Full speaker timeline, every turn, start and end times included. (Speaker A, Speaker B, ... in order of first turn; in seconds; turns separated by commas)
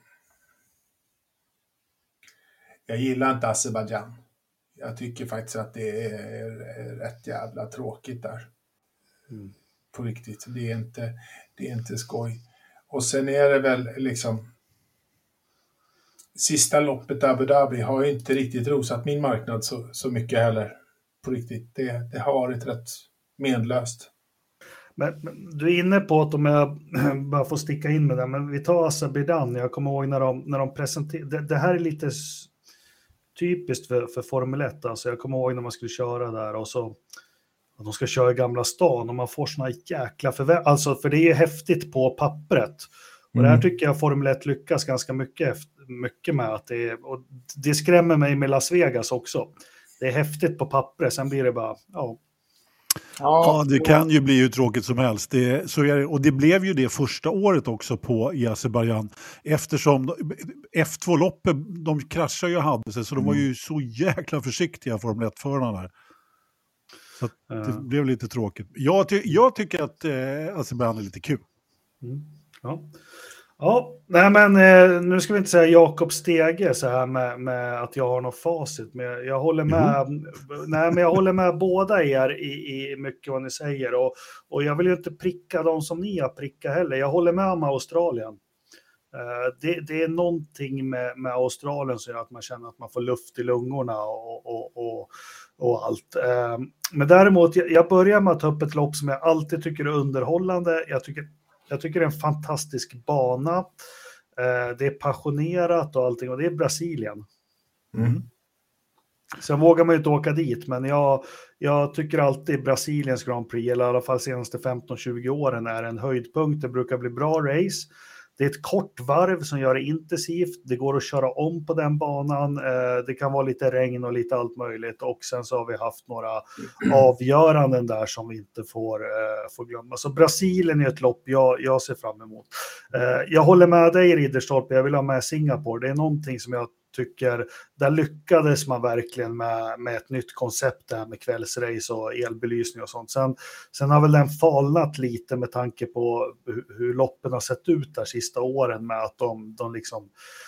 Speaker A: 2.9-4.2, Speaker A: 4.8-8.5, Speaker A: 9.9-14.5, Speaker A: 16.3-24.1, Speaker B: 25.0-32.5, Speaker B: 33.3-37.0, Speaker B: 37.8-52.2, Speaker A: 43.3-43.6, Speaker A: 53.2-53.9, Speaker C: 53.4-65.9, Speaker A: 63.2-63.4, Speaker C: 67.2-71.4, Speaker B: 67.5-67.8, Speaker B: 72.0-72.9, Speaker B: 73.6-88.4, Speaker B: 89.1-103.7, Speaker B: 104.3-107.2, Speaker A: 107.9-108.2, Speaker B: 109.4-150.1